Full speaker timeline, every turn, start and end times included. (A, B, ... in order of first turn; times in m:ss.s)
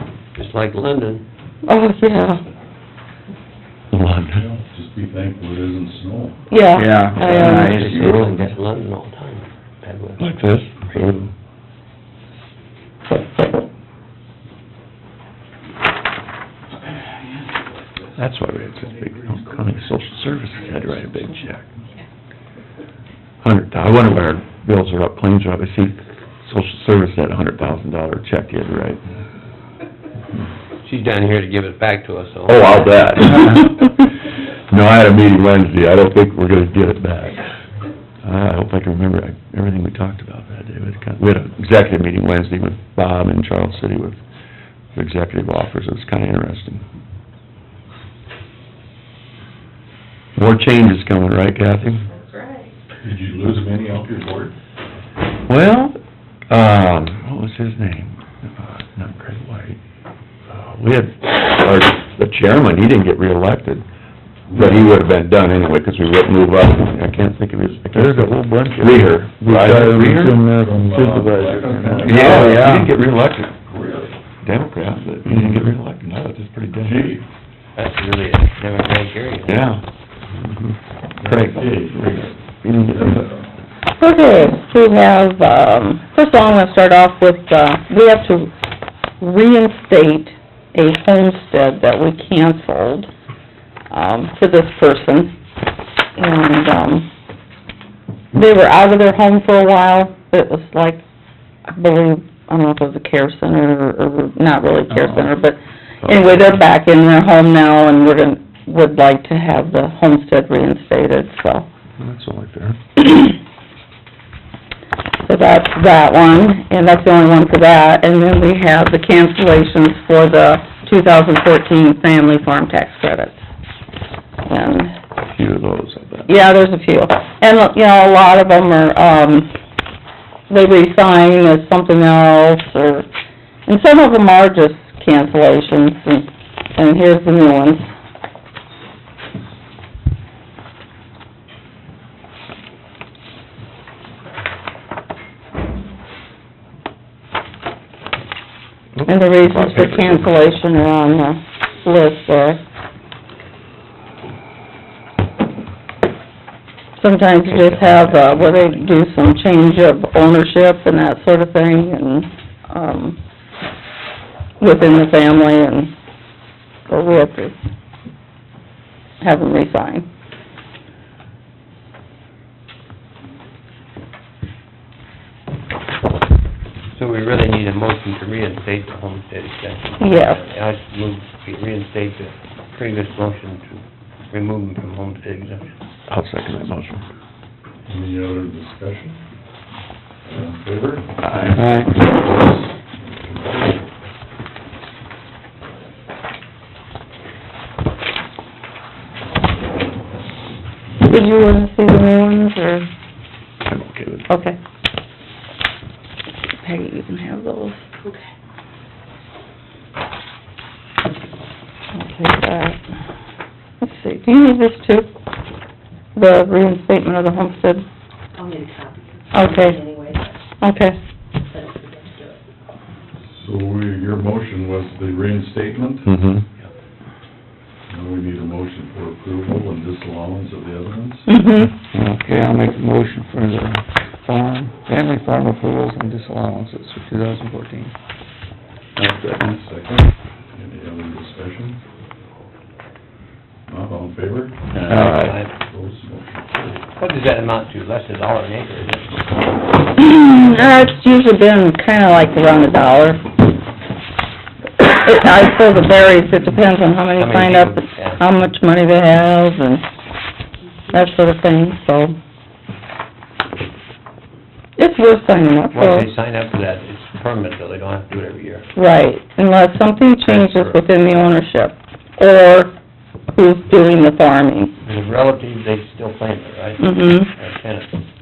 0:00.3-0:01.2 A
0:01.6-0:02.4 B
0:03.9-0:04.4 C
0:04.3-0:06.4 D
0:06.5-0:07.8 B
0:06.7-0:08.5 E
0:07.2-0:11.3 A
0:07.5-0:08.2 C
0:10.2-0:11.3 C
0:18.2-0:21.7 C
0:23.4-0:29.0 C
0:30.8-0:32.9 A
0:32.5-0:34.0 C
0:34.7-0:37.4 C
0:38.2-0:44.2 C
0:45.0-0:46.8 C
0:50.4-0:52.0 C
0:52.2-0:52.5 F
0:53.0-0:54.5 D
0:55.5-0:56.0 C
0:56.5-0:59.8 C
1:00.5-1:03.8 C
1:04.5-1:04.9 D
1:04.5-1:10.3 C
1:07.9-1:12.9 E
1:09.4-1:12.8 D
1:12.0-1:13.7 C
1:13.7-1:14.2 D
1:14.4-1:17.2 C
1:16.8-1:17.2 D
1:17.8-1:19.7 A
1:19.5-1:19.8 C
1:21.2-1:22.2 D
1:21.2-1:23.4 C
1:24.0-1:28.5 B
1:29.2-1:33.1 B
1:33.9-1:35.3 B
1:36.2-1:37.1 B
1:38.3-1:41.0 B
1:41.7-1:51.7 B
1:44.9-1:45.2 E
1:46.0-1:46.4 C
1:52.0-1:52.8 C
1:55.2-2:03.4 B
2:04.5-2:04.9 B
2:05.2-2:06.3 C
2:06.3-2:09.5 B
2:10.5-2:13.0 B
2:13.7-2:17.9 B
2:28.9-2:30.4 C
2:29.1-2:32.6 B
2:37.0-2:43.2 B
2:37.4-2:38.9 C
2:44.6-2:45.9 B
2:46.9-2:47.5 B
2:49.2-2:50.1 B
2:56.9-3:05.7 A
3:00.0-3:00.4 B
3:06.1-3:07.0 C
3:07.9-3:09.2 D
3:10.2-3:13.8 D
3:11.2-3:11.6 C
3:11.4-3:12.1 E
3:21.0-3:22.9 B
3:23.6-3:24.2 C
3:24.3-3:24.6 B
3:26.6-3:27.8 B
3:31.9-3:32.8 B
3:33.8-3:35.1 B
3:36.1-3:37.8 B
3:38.4-3:40.4 F
3:39.3-3:39.9 B
3:40.6-3:41.0 B
3:41.5-3:42.4 F
3:43.4-3:46.1 D
3:46.0-3:46.4 C
3:47.9-3:51.3 D
3:51.3-3:51.8 B
3:51.9-3:57.9 E
3:59.0-4:01.8 D
4:03.7-4:06.8 D
4:04.8-4:05.5 A
4:04.9-4:05.4 C
4:07.0-4:09.3 A
4:09.9-4:13.2 B
4:14.8-4:19.9 B
4:17.2-4:18.2 A
4:20.9-4:22.2 B
4:24.8-4:26.1 B
4:25.7-4:28.7 A
4:28.8-4:32.7 B
4:30.2-4:30.8 A
4:33.3-4:34.8 B
4:34.8-4:37.9 A
4:36.8-4:37.3 B